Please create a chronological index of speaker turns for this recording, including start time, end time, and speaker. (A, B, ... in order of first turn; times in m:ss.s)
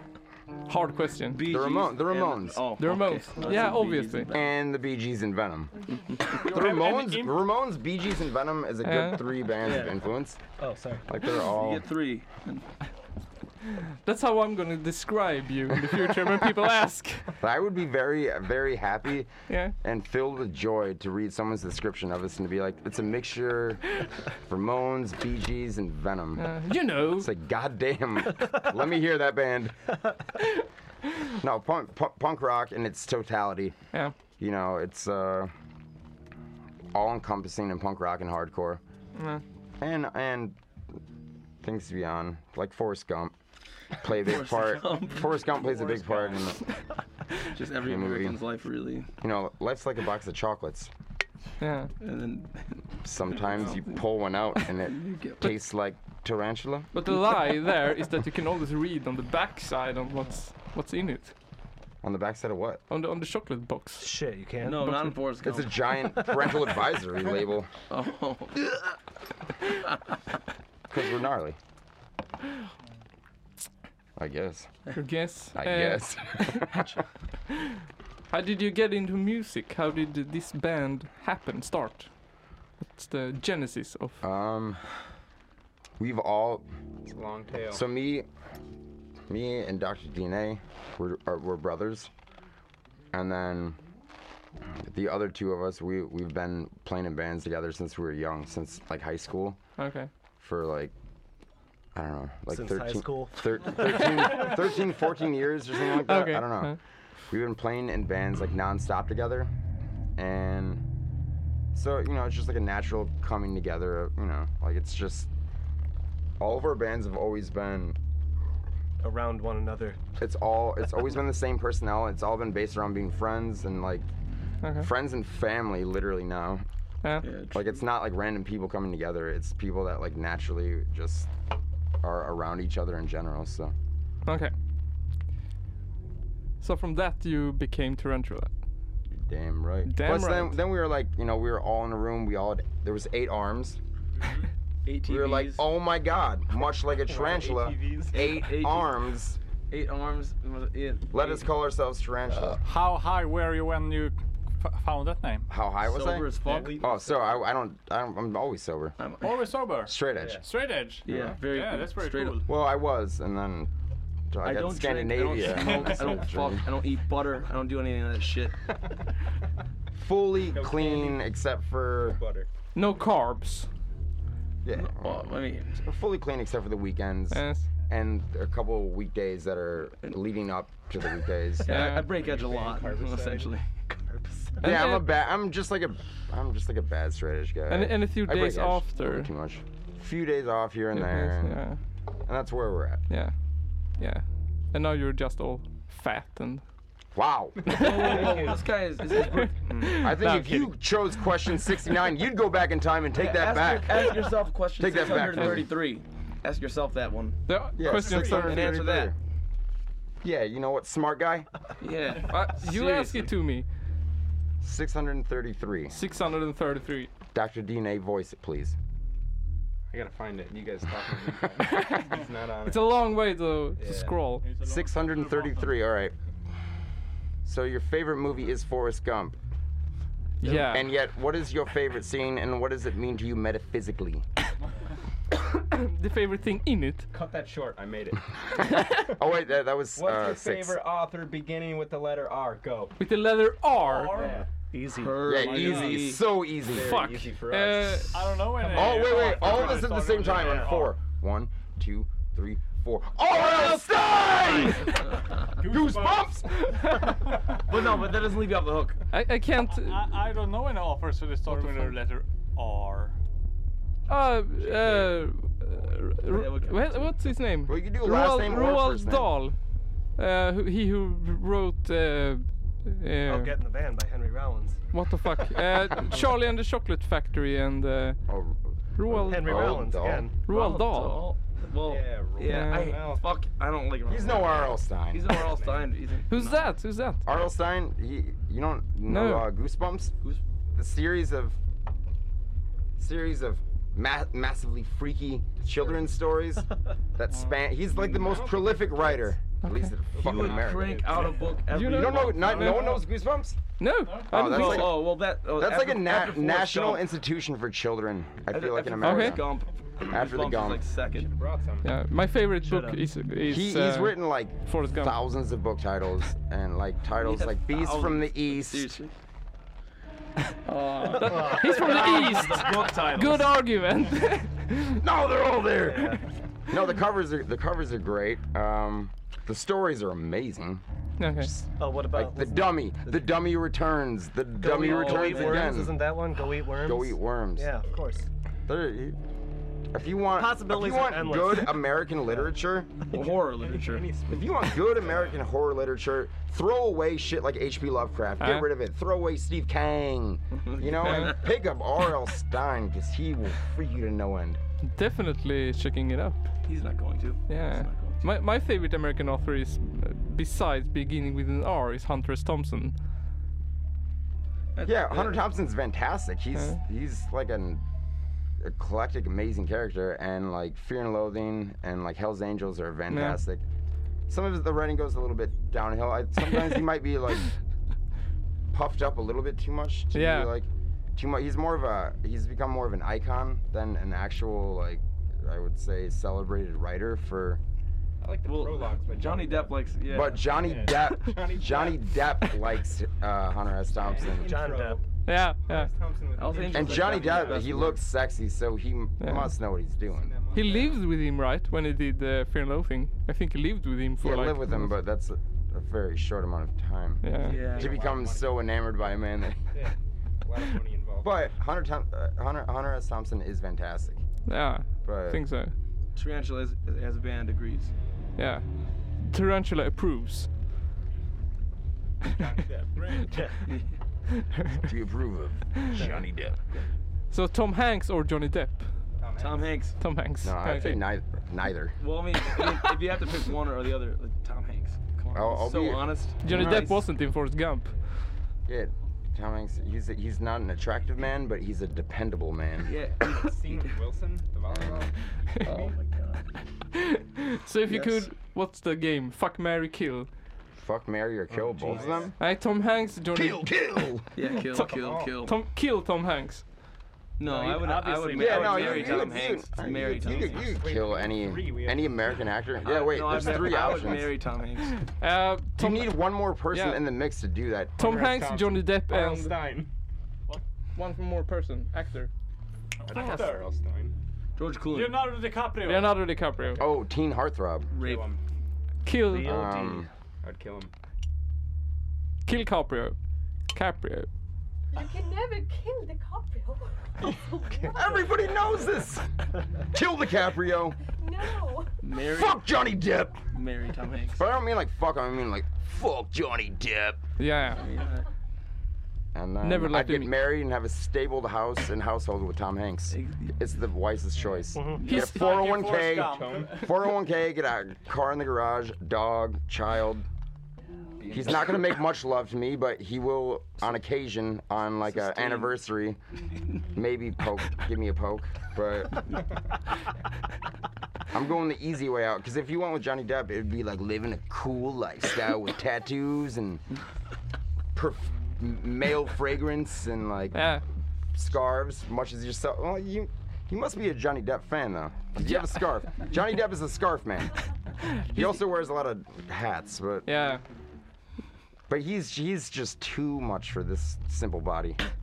0:00.7-0:01.4 A
0:01.3-0:04.5 B
0:01.4-0:02.6 C
0:02.8-0:04.3 A
0:04.3-0:10.4 C
0:06.2-0:07.4 D
0:08.8-0:09.3 A
0:09.6-0:10.0 B
0:10.6-0:11.0 E
0:11.1-0:11.9 C
0:11.4-0:12.7 B
0:14.0-0:17.3 A
0:17.4-0:19.3 C
0:19.5-0:19.7 A
0:19.8-0:23.9 C
0:24.5-0:26.5 C
0:26.4-0:27.3 A
0:27.1-0:29.8 C
0:31.3-0:33.8 C
0:34.4-0:35.5 C
0:36.9-0:38.8 C
0:39.2-0:39.4 A
0:39.8-0:40.6 C
0:41.6-0:43.3 C
0:44.0-0:46.6 C
0:44.1-0:45.4 B
0:47.5-0:49.1 B
0:47.8-0:48.4 C
0:49.2-0:50.9 C
0:51.6-0:51.9 A
0:52.0-0:54.0 B
0:53.0-0:56.9 C
0:54.8-0:55.5 B
0:56.9-1:01.3 A
1:02.0-1:02.8 C
1:02.9-1:04.1 A
1:04.0-1:05.1 E
1:04.6-1:05.8 B
1:04.8-1:05.1 A
1:05.4-1:07.7 C
1:07.9-1:08.8 B
1:10.9-1:11.6 C
1:14.2-1:14.7 C
1:14.9-1:16.7 A
1:15.6-1:16.9 C
1:17.5-1:17.8 A
1:18.3-1:22.1 A
1:22.9-1:24.2 A
1:24.2-1:24.8 C
1:26.0-1:26.7 C
1:27.0-1:27.8 F
1:27.7-1:28.3 C
1:29.3-1:32.1 C
1:33.1-1:33.8 C
1:34.7-1:39.6 C
1:39.8-1:40.1 A
1:40.4-1:40.9 C
1:42.0-1:46.8 C
1:42.5-1:44.2 E
1:46.0-1:46.8 A
1:47.3-1:49.5 C
1:50.2-1:50.8 C
1:51.7-1:55.3 C
1:56.4-1:58.0 C
1:59.0-2:00.0 E
2:00.2-2:04.1 C
2:04.6-2:04.9 A
2:04.8-2:06.6 C
2:07.0-2:07.3 A
2:07.2-2:07.7 B
2:07.5-2:11.3 C
2:12.0-2:13.7 C
2:14.3-2:14.5 A
2:16.6-2:18.5 A
2:19.2-2:23.8 C
2:19.9-2:20.6 A
2:24.2-2:24.5 F
2:24.9-2:25.6 B
2:25.0-2:29.4 C
2:27.0-2:28.1 F
2:28.1-2:28.9 B
2:29.7-2:31.5 B
2:31.1-2:32.6 C
2:32.6-2:35.5 D
2:35.5-2:39.0 C
2:35.8-2:36.8 B
2:36.4-2:37.4 F
2:39.0-2:39.5 B
2:39.2-2:42.5 D
2:39.9-2:40.4 C
2:40.2-2:40.5 F
2:41.1-2:41.4 F
2:41.1-2:42.4 B
2:42.5-2:43.7 C
2:44.3-2:46.7 C
2:44.4-2:48.6 B
2:45.5-2:46.1 D
2:50.0-2:52.2 C
2:50.5-2:51.2 F
2:52.0-2:52.5 F
2:52.8-2:53.7 A
2:54.6-3:02.0 C
2:54.7-2:55.8 B
2:57.3-2:57.6 A
3:01.6-3:03.8 B
3:01.7-3:02.1 A
3:02.0-3:03.6 F
3:04.1-3:04.6 E
3:04.6-3:05.1 A
3:04.6-3:11.6 C
3:07.7-3:09.3 A
3:10.9-3:11.8 A
3:12.3-3:13.0 C
3:14.0-3:16.6 A
3:17.1-3:18.3 C
3:17.7-3:20.1 B
3:17.7-3:18.2 A
3:17.7-3:18.6 F
3:19.3-3:20.7 A
3:20.0-3:25.7 C
3:23.1-3:27.4 B
3:27.5-3:28.7 A
3:27.8-3:29.2 C
3:28.2-3:29.1 B
3:30.2-3:31.5 C
3:31.8-3:33.3 B
3:32.2-3:33.7 A
3:34.6-3:36.0 C
3:35.9-3:37.1 A
3:37.3-3:38.8 C
3:39.9-3:43.0 F
3:41.6-3:44.4 A
3:43.8-3:44.3 F
3:44.4-3:45.8 D
3:44.6-3:46.1 C
3:47.4-3:49.4 C
3:50.4-3:50.9 A
3:50.4-3:54.2 C
3:55.6-3:57.1 A
3:57.1-3:58.4 F
3:58.8-4:00.8 C
4:00.0-4:03.0 F
4:03.0-4:04.3 A
4:03.8-4:04.5 D
4:04.1-4:04.5 F
4:04.7-4:05.2 E
4:05.0-4:06.2 B
4:05.2-4:07.0 C
4:05.3-4:06.0 D
4:06.6-4:10.5 F
4:06.8-4:08.6 A
4:08.1-4:11.0 D
4:08.7-4:17.1 C
4:15.5-4:16.7 F
4:17.5-4:19.0 B
4:19.1-4:20.1 A
4:19.6-4:23.2 D
4:21.5-4:22.0 A
4:24.1-4:29.6 A
4:24.8-4:25.0 B
4:26.2-4:27.2 B
4:27.7-4:29.3 C
4:30.2-4:33.5 A
4:33.3-4:34.8 E
4:34.9-4:38.2 A
4:38.3-4:40.3 C
4:39.0-4:39.9 A
4:39.3-4:40.4 E
4:40.5-4:41.2 A
4:40.5-4:46.7 B
4:41.8-4:43.4 F
4:42.4-4:43.0 A
4:44.1-4:45.4 C
4:45.3-4:45.9 F
4:46.3-4:47.2 A
4:47.3-4:50.2 C
4:49.1-4:49.5 A
4:50.7-4:51.6 C
4:53.0-5:03.6 C
4:57.9-4:59.3 F
4:59.6-4:59.9 A
5:00.1-5:01.6 F
5:00.2-5:02.9 B
5:01.7-5:03.0 A
5:02.4-5:03.0 F
5:03.8-5:05.0 A
5:04.0-5:04.3 D
5:04.3-5:09.5 C
5:04.3-5:07.1 B
5:08.5-5:11.3 B
5:09.0-5:09.4 A
5:10.1-5:10.8 C
5:11.1-5:11.9 F
5:11.8-5:15.2 A
5:12.6-5:13.0 E
5:13.5-5:18.9 C
5:17.2-5:19.1 B
5:20.6-5:23.4 B
5:21.1-5:25.0 A
5:21.2-5:23.1 E
5:25.0-5:30.8 C
5:25.8-5:26.2 E
5:31.2-5:31.5 A
5:31.3-5:36.0 C
5:31.8-5:33.3 E
5:34.6-5:38.3 E
5:34.8-5:35.7 B
5:36.8-5:37.7 C
5:38.7-5:39.2 C
5:39.9-5:43.0 C
5:40.2-5:41.9 E
5:43.1-5:44.2 B
5:43.1-5:45.5 F
5:44.3-5:54.6 C
5:48.4-5:48.7 A
5:50.5-5:51.5 B
5:51.0-5:51.4 A
5:54.8-5:56.4 A
5:56.6-5:58.2 B
5:57.5-6:03.0 A
6:04.8-6:05.4 B
6:04.8-6:07.8 C
6:08.6-6:13.6 C
6:13.1-6:13.4 A
6:14.3-6:17.5 C
6:18.7-6:27.6 C
6:20.1-6:20.5 A
6:28.2-6:32.1 F
6:28.4-6:30.6 B
6:30.1-6:34.6 C
6:33.9-6:38.0 F
6:34.4-6:35.0 E
6:35.2-6:35.9 A
6:36.4-6:38.0 B
6:36.7-6:40.4 C
6:39.2-6:39.5 A
6:40.0-6:41.1 F
6:40.5-6:44.9 A
6:44.2-6:49.8 C
6:47.2-6:47.6 A
6:47.4-6:48.7 F
6:47.4-6:48.0 B
6:49.7-6:51.5 F
6:51.2-6:54.2 C
6:54.5-6:55.7 A
6:55.0-6:55.4 C
6:56.2-6:57.9 B
6:58.4-6:58.6 A
6:59.2-7:00.5 A
7:02.3-7:03.2 F
7:03.0-7:03.3 D
7:03.7-7:03.9 B
7:04.4-7:04.8 A
7:04.8-7:06.6 C
7:06.0-7:06.2 E
7:07.3-7:08.9 A
7:09.2-7:09.8 F
7:09.4-7:10.0 B
7:10.0-7:11.0 A
7:10.4-7:12.0 C
7:12.0-7:17.1 B
7:15.3-7:16.9 C
7:16.4-7:17.9 A
7:18.7-7:22.9 C
7:22.8-7:23.8 B
7:23.0-7:26.0 F
7:24.7-7:25.1 C
7:25.6-7:26.5 B
7:26.9-7:30.3 A
7:27.9-7:28.3 B
7:30.8-7:32.4 C
7:31.6-7:32.4 F
7:32.4-7:33.7 A
7:33.3-7:34.3 C
7:34.4-7:35.6 B
7:34.4-7:36.6 A
7:34.7-7:35.5 F
7:37.4-7:40.8 B
7:37.5-7:42.4 F
7:38.4-7:44.4 C
7:42.8-7:45.0 B
7:44.9-7:46.2 A
7:45.8-7:48.1 C
7:46.7-7:47.0 A
7:48.0-7:49.9 F
7:48.0-7:49.6 A
7:51.0-7:52.3 A
7:53.0-7:53.7 D
7:53.0-7:54.2 F
7:53.2-7:53.4 A
7:54.6-7:55.4 B
7:54.9-7:56.2 D
7:55.8-7:56.8 A
7:56.8-7:57.9 C
7:57.9-7:58.3 B
7:57.9-7:58.4 F
7:59.0-7:59.7 A
7:59.2-8:00.1 E
7:59.4-8:00.1 C
8:00.4-8:00.9 F
8:02.5-8:03.2 A
8:03.7-8:04.3 A
8:04.9-8:08.6 G
8:07.9-8:09.3 C
8:09.9-8:11.0 C
8:11.1-8:11.9 G
8:12.0-8:12.7 B
8:12.2-8:13.4 C
8:13.5-8:14.4 B
8:14.4-8:17.2 C
8:17.4-8:17.9 A
8:17.8-8:18.3 B
8:19.3-8:30.3 C
8:19.6-8:20.4 A
8:23.1-8:23.6 B
8:24.4-8:24.8 F
8:24.8-8:25.1 E
8:25.0-8:25.6 A
8:25.1-8:26.9 D
8:26.0-8:26.8 F
8:31.2-8:31.7 F
8:31.3-8:36.2 C
8:35.2-8:35.7 B
8:36.9-8:39.3 C
8:41.3-8:46.8 C
8:47.9-8:50.8 C
8:50.5-8:50.8 A
8:51.3-8:57.6 C
8:55.4-8:55.7 A
8:58.2-9:00.3 C
9:00.3-9:00.6 A
9:01.9-9:05.0 C